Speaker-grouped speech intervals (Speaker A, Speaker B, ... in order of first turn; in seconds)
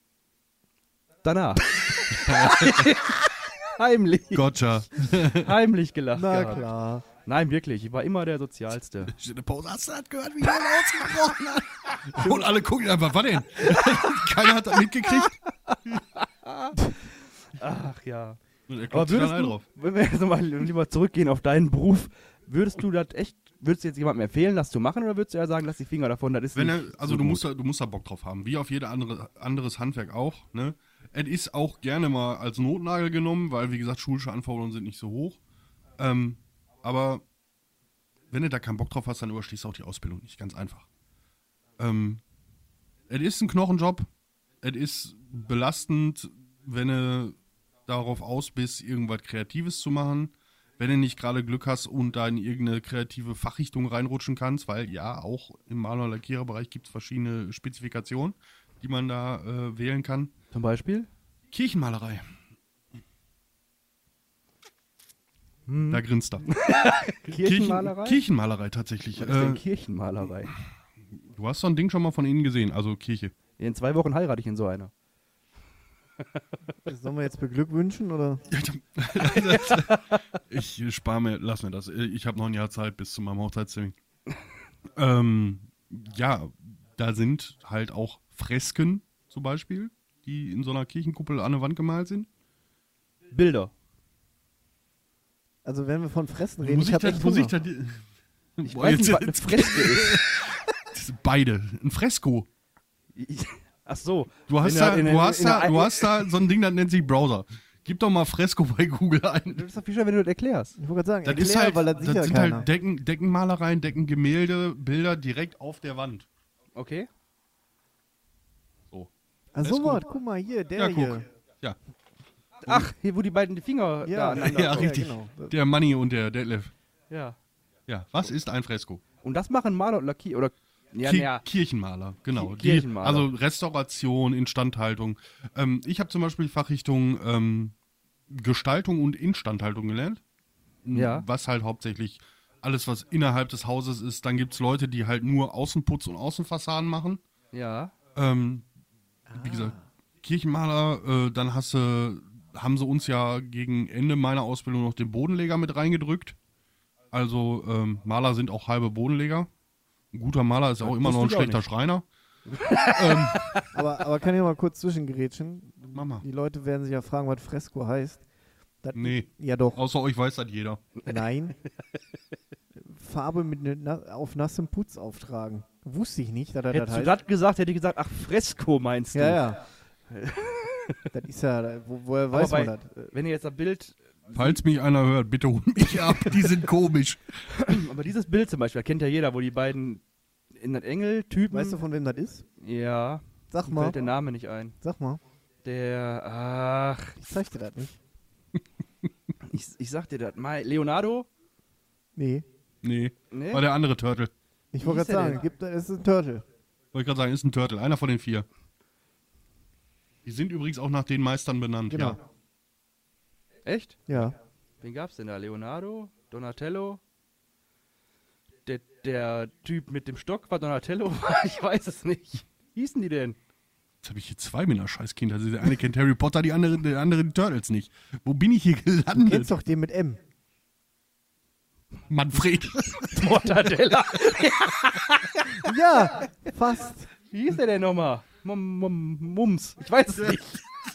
Speaker A: 1.2-4.5, 5.2-6.7, 7.2-9.1, 15.7-18.4, 18.9-27.4, 60.5-61.1, 65.7-68.2, 69.2-70.5, 73.6-74.9, 79.5-79.9, 93.3-93.7, 98.6-100.5, 103.2-106.3, 109.5-110.8, 116.8-117.1, 122.6-124.9, 127.1-127.4, 129.2-131.4, 132.3-133.3, 140.9-141.2, 147.5-147.9, 160.8-161.7, 162.5-163.7, 176.7-179.5, 180.1-181.1, 182.3-184.6, 186.1-186.5, 187.5-190.0, 190.5-191.8, 192.6-194.8, 195.6-197.2, 199.4-201.3, 203.3-203.6, 204.8-205.4, 213.6-214.3, 214.8-217.0, 218.7-223.4, 233.1-235.7, 237.3-240.6
Speaker B: 2.2-2.9, 4.3-5.5, 9.0-15.4, 18.7-19.6, 26.5-35.4, 36.0-37.2, 38.3-40.9, 41.8-42.2, 43.1-44.1, 44.6-60.3, 61.5-62.3, 65.9-66.5, 67.3-69.6, 71.3-73.3, 78.5-84.0, 85.0-92.3, 96.6-98.0, 98.6-102.5, 104.5-109.6, 111.2-116.3, 119.6-120.0, 120.8-121.8, 124.4-126.7, 127.9-129.0, 131.0-137.7, 138.3-140.2, 140.8-147.2, 148.1-148.7, 149.3-156.4, 157.1-159.5, 160.1-162.1, 162.8-163.6, 165.9-166.2, 168.9-170.8, 184.3-187.8, 202.8-204.3, 206.9-208.4, 210.2-212.2, 224.0-229.5, 232.1-233.3
Speaker C: 6.1-7.0, 76.8-78.5, 95.6-97.5, 110.8-112.7, 119.5-121.2, 124.0-125.5, 149.3-149.8, 163.7-168.2, 168.8-169.8, 171.1-171.6, 172.8-177.2, 179.1-179.6, 181.1-182.9, 191.5-192.4, 193.5-193.9, 194.8-195.2, 197.2-198.0, 202.2-202.4, 204.7-206.4, 211.9-212.2, 214.1-214.3, 229.1-230.2, 235.6-237.1